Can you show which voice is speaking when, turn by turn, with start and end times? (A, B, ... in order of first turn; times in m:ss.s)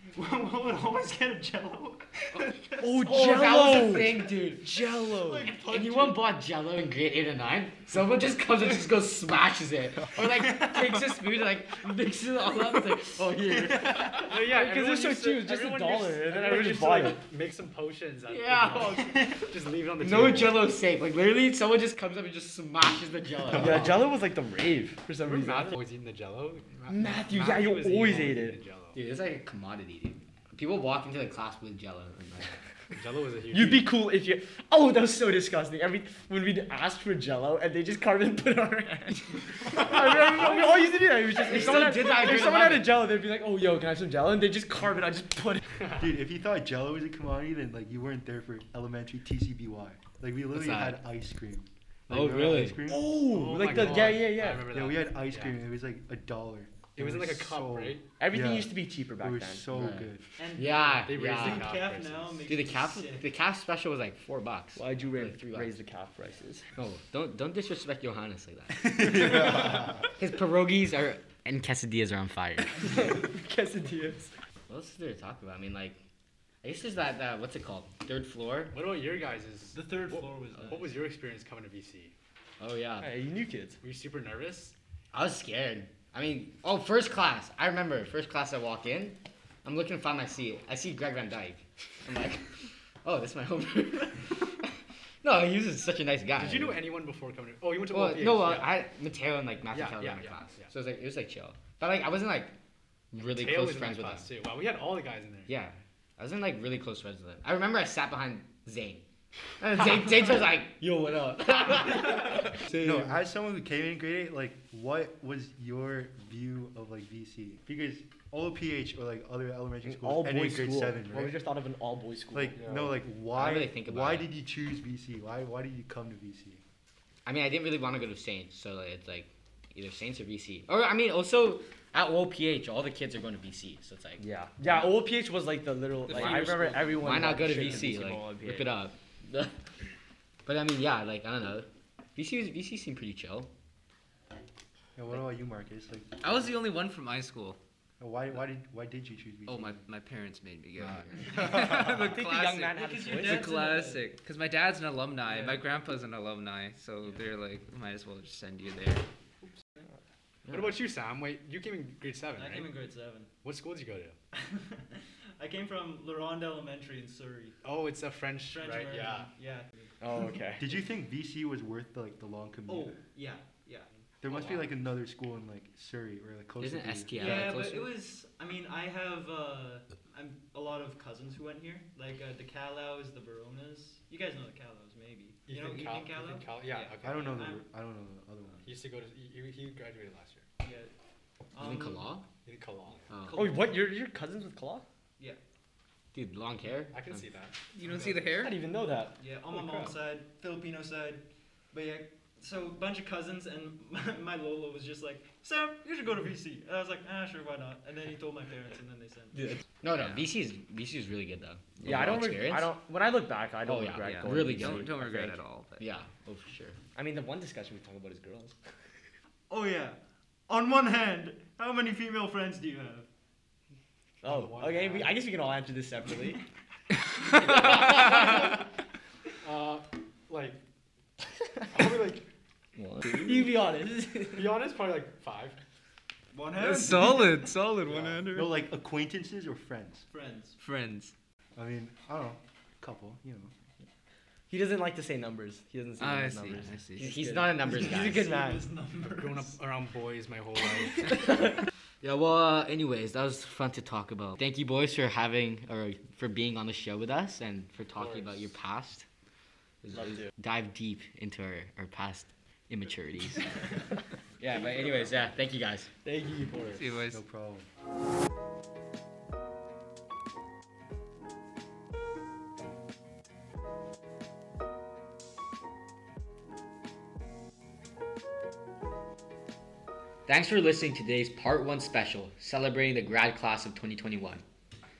0:00.2-0:03.3 A
0:02.8-0:05.5 B
0:03.0-0:04.9 C
0:04.9-0:06.3 A
0:05.5-0:14.1 C
0:10.4-0:10.7 A
0:13.4-0:14.4 A
0:14.2-0:20.7 D
0:14.3-0:17.2 B
0:18.3-0:19.4 C
0:18.7-0:19.5 A
0:20.0-0:24.0 C
0:23.5-0:25.8 B
0:25.2-0:29.0 D
0:26.9-0:28.6 B
0:28.9-0:32.6 C
0:32.9-0:33.9 D
0:33.5-0:45.7 B
0:40.1-0:41.0 D
0:40.2-0:40.5 C
0:41.4-0:43.0 C
0:46.0-0:54.1 E
0:50.5-0:51.0 C
0:52.1-0:52.8 C
0:52.9-0:54.7 B
0:53.2-0:55.6 D
0:54.6-1:00.3 E
0:57.0-0:58.0 D
0:58.2-0:59.6 B
0:59.7-1:01.7 C
1:00.4-1:03.3 A
1:00.9-1:02.5 D
1:02.5-1:05.8 C
1:04.8-1:06.6 B
1:06.8-1:13.2 C
1:08.8-1:10.0 E
1:12.8-1:14.3 B
1:14.7-1:16.0 C
1:16.6-1:18.8 C
1:18.7-1:22.1 D
1:19.7-1:21.0 A
1:22.6-1:23.1 C
1:23.0-1:23.8 B
1:23.8-1:24.7 D
1:25.1-1:34.7 C
1:35.2-1:36.8 C
1:36.4-1:38.8 D
1:37.9-1:42.6 C
1:39.7-1:40.7 D
1:43.1-1:44.3 C
1:43.2-1:45.5 D
1:45.5-1:49.0 C
1:49.6-1:53.2 C
1:52.7-2:01.4 E
1:59.8-2:02.6 B
2:02.3-2:06.6 E
2:03.3-2:04.3 C
2:07.2-2:14.2 C
2:14.2-2:18.7 B
2:16.1-2:17.9 F
2:16.1-2:19.6 C
2:20.4-2:23.5 C
2:25.0-2:26.2 E
2:26.2-2:27.6 F
2:28.0-2:29.8 E
2:29.5-2:39.0 F
2:31.6-2:33.5 B
2:32.7-2:34.2 A
2:35.3-2:35.7 A
2:39.4-2:39.9 A
2:40.5-2:40.8 C
2:40.5-2:42.7 D
2:42.4-2:43.3 A
2:43.4-2:44.2 D
2:44.3-2:47.6 A
2:47.6-2:49.3 D
2:48.5-2:50.2 A
2:50.0-2:50.7 B
2:50.6-2:53.0 E
2:52.7-2:54.7 A
2:54.2-2:57.2 E
2:56.6-2:58.0 C
2:57.1-3:07.6 A
3:05.5-3:07.6 D
3:07.0-3:08.7 E
3:08.6-3:10.4 D
3:10.6-3:10.9 A
3:11.5-3:12.2 A
3:11.6-3:12.3 C
3:12.4-3:13.1 D
3:13.1-3:13.6 C
3:13.1-3:13.8 A
3:13.3-3:14.8 B
3:16.1-3:17.3 C
3:16.9-3:18.2 D
3:17.7-3:18.6 F
3:18.4-3:19.9 B
3:19.2-3:29.6 A
3:29.4-3:32.7 C
3:30.0-3:30.2 F
3:31.8-3:35.4 B
3:33.6-3:35.0 C
3:34.0-3:35.8 F
3:35.8-3:36.8 C
3:37.0-3:38.6 B
3:39.5-3:43.1 A
3:44.2-3:45.2 D
3:44.2-3:46.4 B
3:47.4-3:48.6 D
3:49.4-3:50.6 D
3:51.7-3:52.2 D
3:52.8-3:53.4 C
3:53.0-3:54.6 B
3:54.3-3:55.6 D
3:56.3-3:57.5 A
3:56.6-3:58.5 F
3:57.9-3:58.3 D
3:58.3-4:00.0 E
4:00.1-4:00.6 A
4:00.6-4:01.1 F
4:01.6-4:03.5 E
4:04.5-4:08.6 B
4:06.0-4:07.2 F
4:07.0-4:08.3 C
4:07.8-4:09.5 A
4:09.2-4:11.2 D
4:12.0-4:19.0 C
4:18.0-4:18.5 D
4:19.8-4:23.5 C
4:24.4-4:25.9 C
4:26.0-4:26.9 B
4:26.7-4:27.2 F
4:27.1-4:27.7 E
4:40.3-4:44.4 C